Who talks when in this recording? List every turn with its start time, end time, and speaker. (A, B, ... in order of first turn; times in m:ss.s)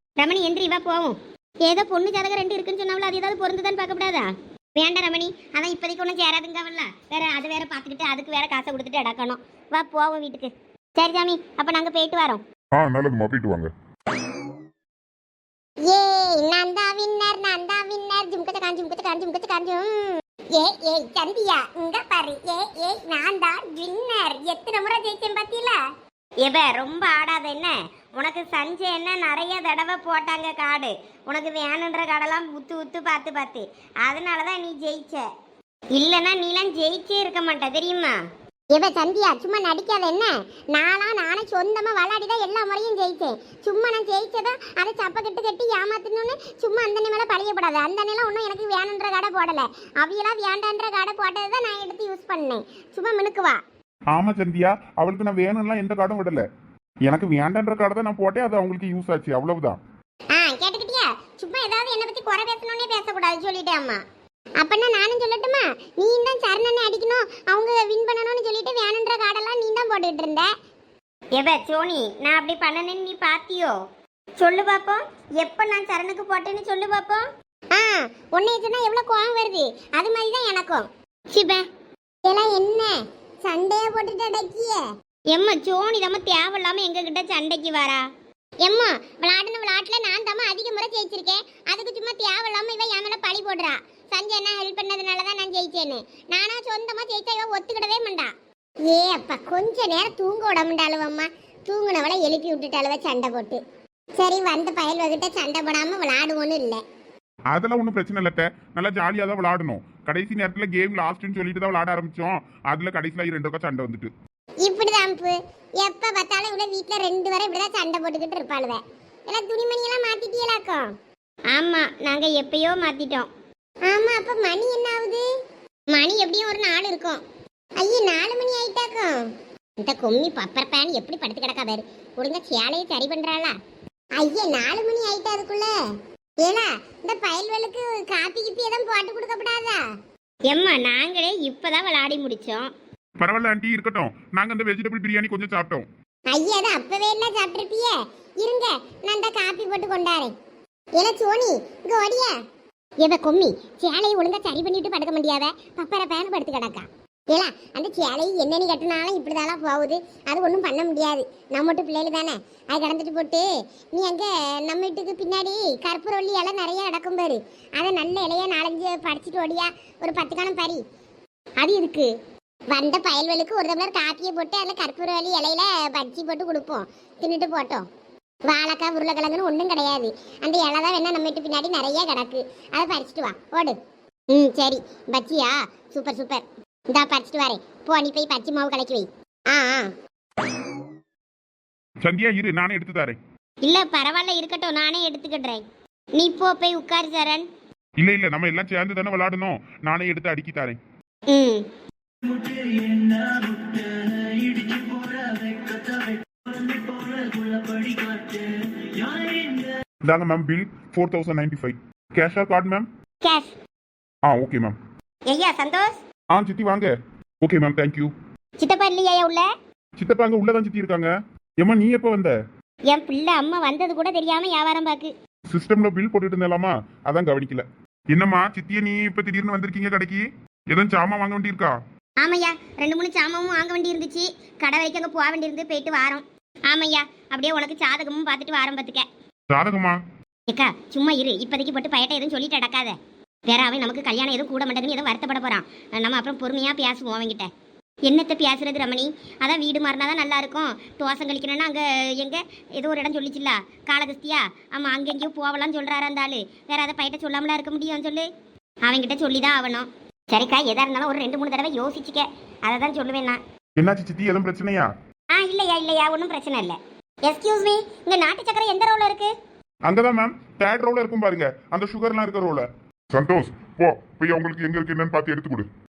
0:00.2-0:12.4 A
0:12.7-0:13.7 B
0:15.9-0:25.7 A
0:26.4-0:35.3 A
0:35.9-0:38.2 A
0:38.7-0:53.6 A
0:54.1-0:56.4 C
0:57.0-0:59.8 C
1:00.3-1:04.0 A
1:04.6-1:10.5 A
1:11.4-1:13.8 A
1:14.4-1:21.6 A
1:22.2-1:28.0 A
1:28.6-1:38.3 A
1:38.8-1:43.6 A
1:44.2-1:46.8 A
1:47.5-1:54.1 C
1:54.6-2:00.9 A
2:01.5-2:03.3 A
2:03.9-2:05.2 A
2:05.9-2:07.2 A
2:07.8-2:09.2 A
2:09.8-2:13.6 A
2:14.2-2:15.7 A
2:16.4-2:19.8 A
2:20.5-2:22.7 A
2:23.2-2:25.9 C
2:26.3-2:30.3 A
2:31.0-2:32.3 A
2:33.0-2:50.8 A
2:51.6-2:52.1 A
2:52.7-2:57.9 A
2:58.5-3:03.8 A
3:04.3-3:09.9 A
3:12.0-3:13.2 C
3:13.6-3:15.6 A
3:16.2-3:17.5 A
3:18.0-3:20.8 C
3:21.3-3:21.6 A
3:22.4-3:25.9 C
3:26.6-3:28.5 C
3:29.0-3:32.9 C
3:33.2-3:33.5 A
3:34.2-3:34.8 C
3:35.3-3:36.0 A
3:36.3-3:38.1 C
3:38.6-3:39.5 A
3:40.0-3:42.4 C
3:42.9-3:45.1 A
3:45.5-3:51.8 C
3:52.2-3:59.0 A
3:59.5-4:00.0 C
4:00.5-4:02.9 A
4:03.5-4:07.5 A
4:08.0-4:18.3 A
4:18.8-4:23.4 A
4:23.8-4:24.9 C
4:25.3-4:29.3 A
4:29.8-4:32.7 C
4:33.1-4:35.7 B